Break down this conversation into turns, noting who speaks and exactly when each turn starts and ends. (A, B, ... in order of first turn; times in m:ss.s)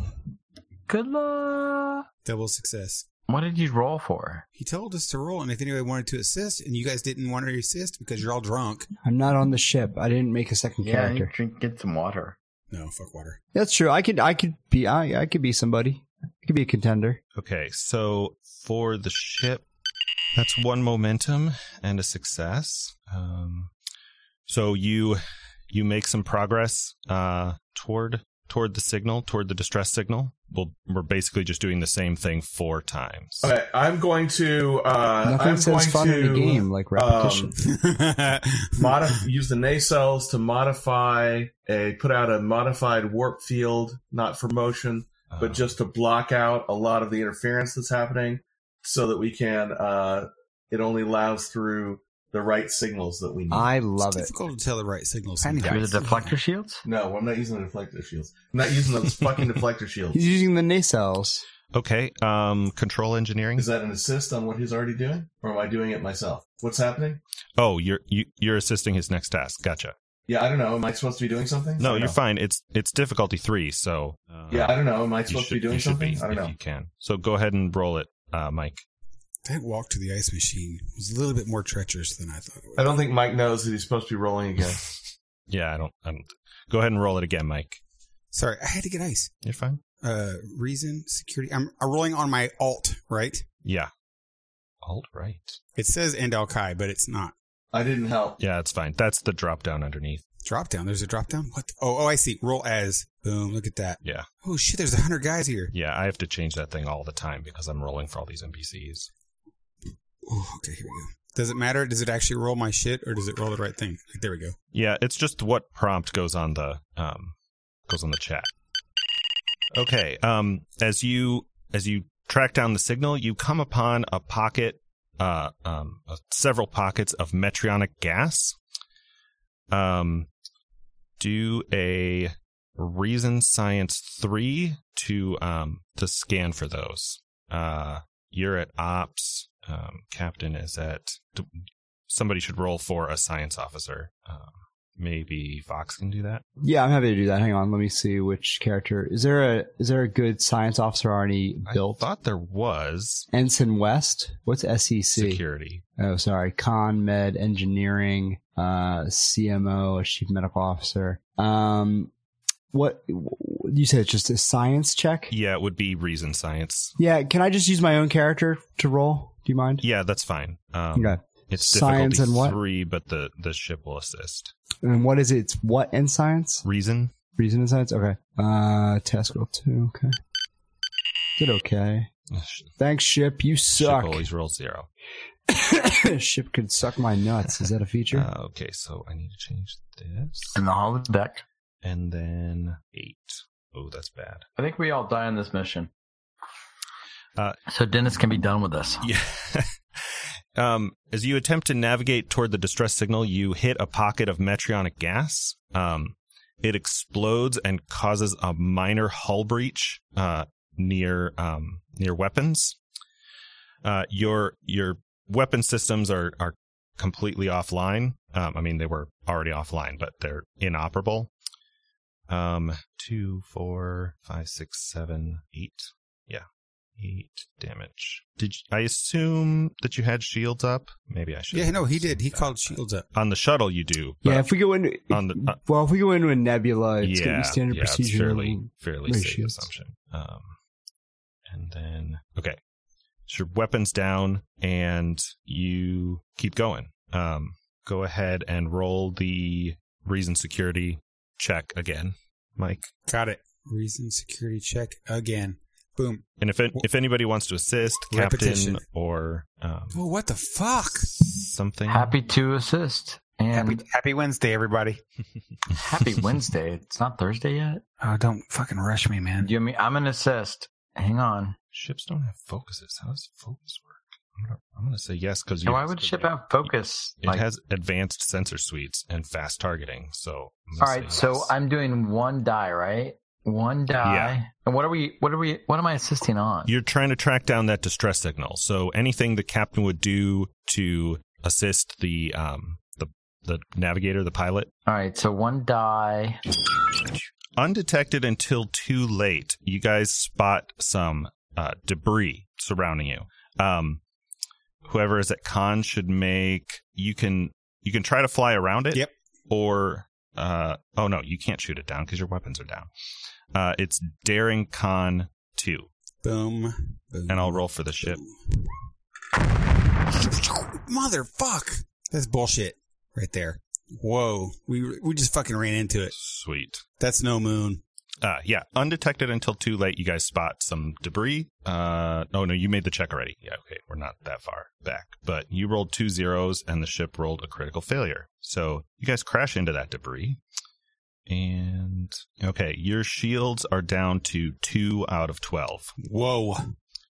0:00.9-0:02.1 A
0:02.2-0:03.0 B
0:03.3-0:04.4 A
0:04.6-0:08.9 B
0:09.0-0:11.3 C
0:10.8-0:12.4 A
0:12.7-0:13.4 B
0:13.5-0:17.2 C
0:17.4-0:19.6 D
0:20.4-0:23.7 D
0:24.5-0:33.5 D
0:33.4-0:37.5 E
0:35.2-0:37.5 C
0:37.6-0:39.1 B
0:38.8-0:53.7 E
0:45.3-0:45.7 D
0:53.5-0:54.3 C
0:54.0-0:56.3 B
0:55.5-0:55.7 D
0:55.6-0:56.8 A
0:56.8-1:00.2 E
1:00.1-1:01.4 C
1:01.7-1:03.7 D
1:03.6-1:07.2 E
1:07.6-1:09.9 D
1:10.3-1:12.2 E
1:11.8-1:18.8 D
1:14.5-1:16.5 E
1:19.4-1:22.9 B
1:22.8-1:24.8 E
1:25.5-1:27.8 D
1:28.3-1:29.3 B
1:29.4-1:29.8 D
1:30.0-1:33.4 B
1:33.6-1:33.9 D
1:34.8-1:35.6 D
1:35.8-1:37.3 B
1:37.7-1:38.4 E
1:38.4-1:40.2 D
1:40.4-1:45.7 B
1:45.7-1:49.1 D
1:50.2-1:54.6 B
1:54.7-1:57.3 D
1:57.9-1:58.5 D
1:59.7-2:08.6 D
2:09.7-2:10.3 D
2:11.2-2:21.5 D
2:22.1-2:26.4 D
2:26.6-2:32.0 C
2:31.7-2:33.3 D
2:33.3-2:35.4 C
2:35.2-2:35.8 D
2:36.0-2:42.1 C
2:42.7-2:45.3 C
2:45.3-2:46.9 D
2:47.0-2:49.8 C
2:49.8-2:54.5 D
2:51.0-2:52.6 C
2:54.8-2:56.6 C
2:56.6-2:57.1 D
2:57.4-3:00.2 C
3:01.4-3:02.1 C
3:02.3-3:02.7 D
3:02.8-3:04.2 C
3:03.8-3:04.9 D
3:05.5-3:08.3 C
3:08.1-3:10.6 D
3:10.6-3:11.4 A
3:11.8-3:14.4 D
3:14.6-3:15.9 A
3:17.7-3:19.1 A
3:19.0-3:19.7 D
3:20.6-3:32.8 D
3:33.8-3:41.3 D
3:42.3-3:46.4 D
3:47.0-3:54.5 D
3:51.5-3:53.0 B
3:54.2-3:59.7 C
3:55.1-3:55.6 D
3:57.0-4:00.6 D
4:01.5-4:02.6 D
4:03.3-4:12.9 D
4:13.1-4:16.8 B
4:16.4-4:20.0 D
4:18.1-4:18.8 B
4:19.9-4:21.1 B
4:21.0-4:22.1 D
4:21.9-4:23.8 A
4:23.5-4:25.0 B
4:25.7-4:27.8 A
4:28.0-4:29.5 B
4:29.4-4:31.6 A
4:31.7-4:36.7 D
4:35.6-4:37.4 A
4:37.2-4:41.5 D
4:40.8-4:46.7 A
4:44.0-4:44.4 D
4:46.7-4:54.7 D
4:54.9-4:56.4 A
4:57.6-5:04.0 D
5:04.8-5:12.9 D
5:13.5-5:15.9 D
5:16.2-5:18.7 B
5:17.3-5:18.2 D
5:20.1-5:26.1 B
5:26.2-5:26.8 D
5:27.0-5:27.8 B
5:28.2-5:40.4 D
5:41.3-5:45.9 D
5:46.0-5:46.7 B